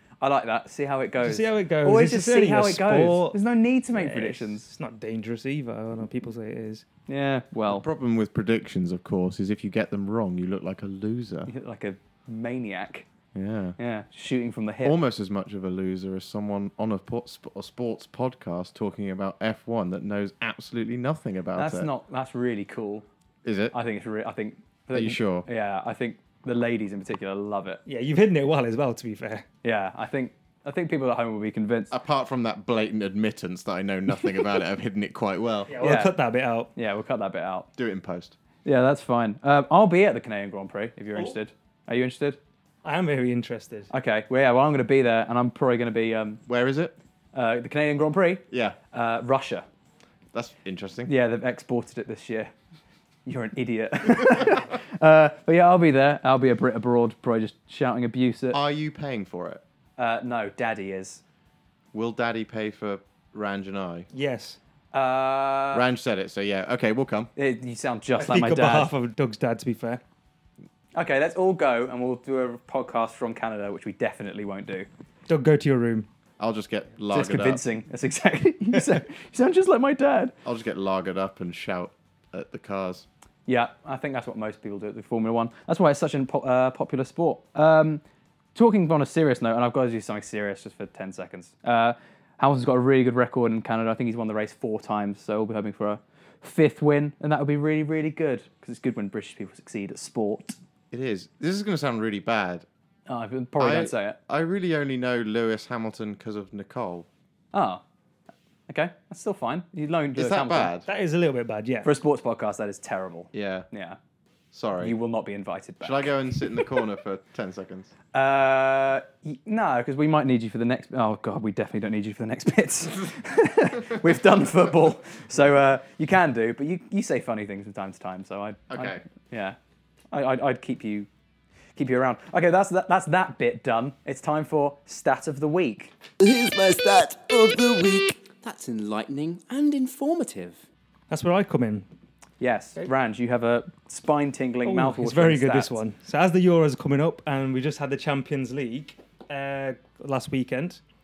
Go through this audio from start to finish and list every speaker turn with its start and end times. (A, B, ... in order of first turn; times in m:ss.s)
0:00.2-0:04.6 A
0:01.2-0:03.4 B
0:03.9-0:06.9 B
0:07.1-0:07.8 A
0:07.7-0:11.5 C
0:11.5-0:13.1 A
0:13.4-0:13.8 C
0:13.8-0:15.0 A
0:14.8-0:21.9 C
0:21.6-0:23.0 A
0:23.4-0:23.8 C
0:23.7-0:27.8 A
0:24.9-0:25.5 C
0:27.9-0:29.5 B
0:29.6-0:31.9 A
0:31.9-0:35.7 C
0:35.7-0:36.7 B
0:35.8-0:36.1 A
0:36.8-0:37.7 A
0:37.8-0:38.4 C
0:38.6-0:42.4 A
0:42.8-0:43.9 B
0:43.9-0:46.4 A
0:46.5-0:47.0 C
0:47.3-0:49.6 A
0:48.5-0:48.8 C
0:50.3-0:51.1 C
0:51.1-0:52.5 A
0:53.3-0:58.6 A
0:58.5-0:59.6 C
1:00.0-1:01.2 A
1:01.9-1:04.1 C
1:04.1-1:04.6 B
1:04.9-1:05.8 A
1:05.7-1:07.3 C
1:07.4-1:08.9 A
1:08.2-1:10.0 B
1:11.0-1:14.9 A
1:15.3-1:16.1 B
1:16.4-1:17.6 C
1:17.1-1:20.3 A
1:20.4-1:23.1 C
1:23.5-1:28.0 A
1:28.6-1:40.6 A
1:40.9-1:42.7 C
1:43.1-1:44.2 A
1:43.6-1:47.1 C
1:47.5-1:47.8 A
1:48.7-1:50.7 A
1:50.2-1:50.9 C
1:50.9-1:51.9 B
1:51.8-1:54.0 A
1:53.3-1:53.7 C
1:54.5-1:55.0 C
1:54.8-1:56.1 A
1:55.8-1:57.9 C
1:58.1-2:09.6 A
2:08.7-2:09.0 C
2:10.1-2:11.1 A
2:11.8-2:15.9 A
2:16.2-2:20.6 D
2:21.1-2:21.9 B
2:22.4-2:25.8 A
2:24.7-2:30.8 B